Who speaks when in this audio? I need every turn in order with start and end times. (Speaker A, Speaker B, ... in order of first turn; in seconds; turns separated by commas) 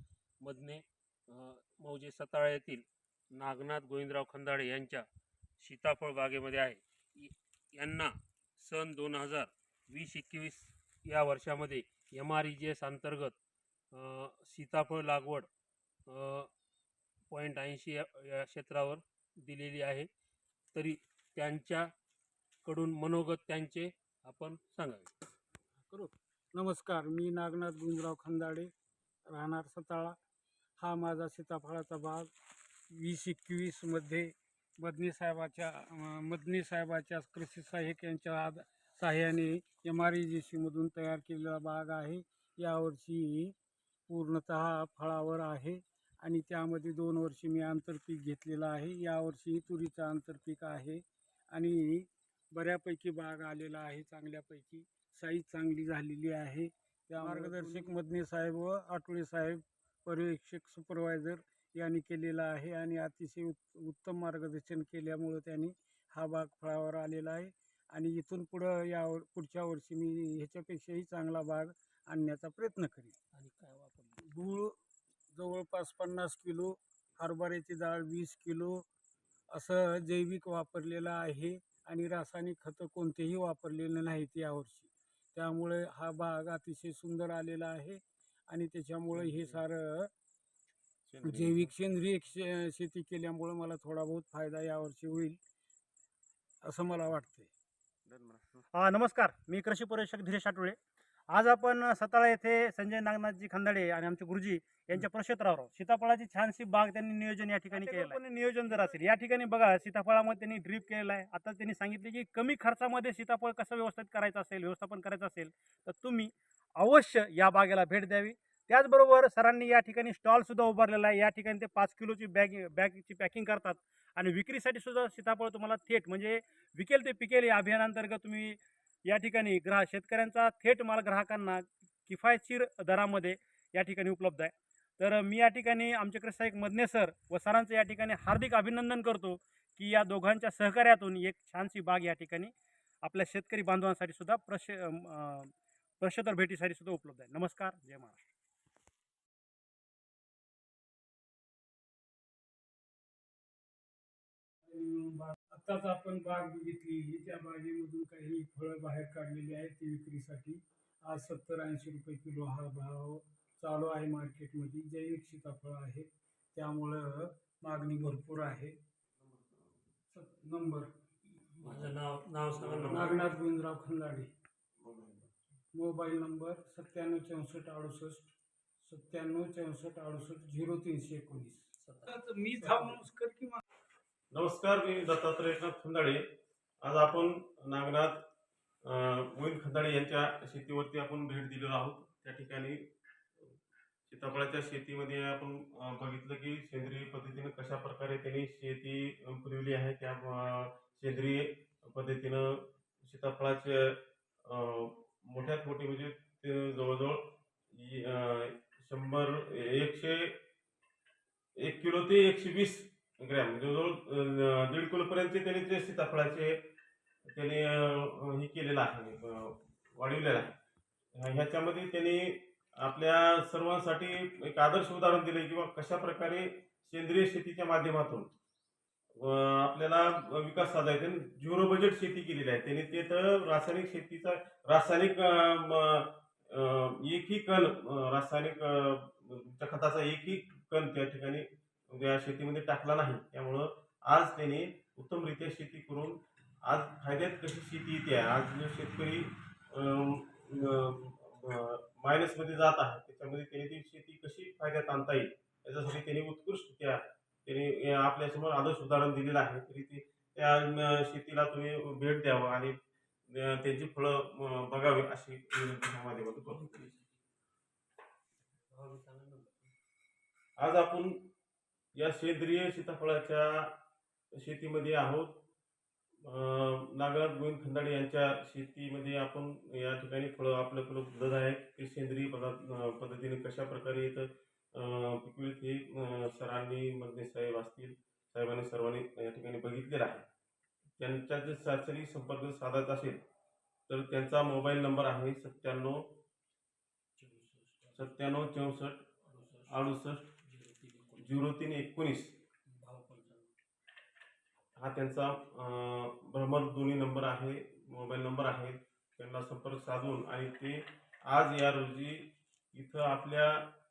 Speaker A: 0.4-5.0, Speaker A: 5.6-13.3, Speaker A: 13.9-15.5, Speaker A: 16.1-16.5, Speaker A: 17.3-20.1, Speaker A: 20.7-21.9, Speaker A: 22.6-25.1, Speaker B: 25.8-28.7, Speaker B: 29.3-30.1, Speaker B: 30.8-32.3, Speaker B: 32.9-43.5, Speaker B: 44.1-73.2, Speaker C: 57.2-57.7, Speaker A: 73.3-74.2, Speaker B: 74.2-74.8, Speaker B: 75.3-78.8, Speaker B: 79.5-90.1, Speaker D: 89.1-89.6, Speaker D: 91.0-91.7, Speaker B: 91.2-95.4, Speaker B: 96.6-97.5, Speaker D: 98.1-98.7, Speaker C: 98.7-100.8, Speaker C: 101.3-148.2, Speaker B: 154.7-168.8, Speaker D: 169.2-169.7, Speaker B: 170.1-170.9, Speaker A: 171.5-173.2, Speaker D: 171.6-171.9, Speaker D: 172.6-173.1, Speaker B: 172.8-174.3, Speaker D: 174.8-175.3, Speaker B: 175.7-183.6, Speaker A: 181.8-182.2, Speaker D: 184.3-186.3, Speaker D: 186.8-188.2, Speaker D: 188.8-192.9, Speaker D: 194.1-210.4, Speaker D: 211.6-216.6, Speaker D: 217.3-220.6, Speaker D: 221.1-228.3, Speaker D: 229.2-262.8, Speaker D: 263.3-266.8, Speaker A: 266.5-267.1, Speaker A: 268.7-269.7, Speaker D: 270.6-271.3, Speaker D: 271.9-273.8, Speaker D: 274.4-275.4, Speaker D: 276.2-290.3, Speaker D: 291.0-293.2, Speaker D: 293.9-296.1, Speaker A: 297.2-298.2, Speaker D: 297.9-299.1, Speaker A: 299.2-299.9, Speaker D: 299.7-300.3, Speaker A: 300.4-301.4, Speaker D: 301.2-302.4, Speaker A: 302.6-303.5, Speaker D: 304.8-313.7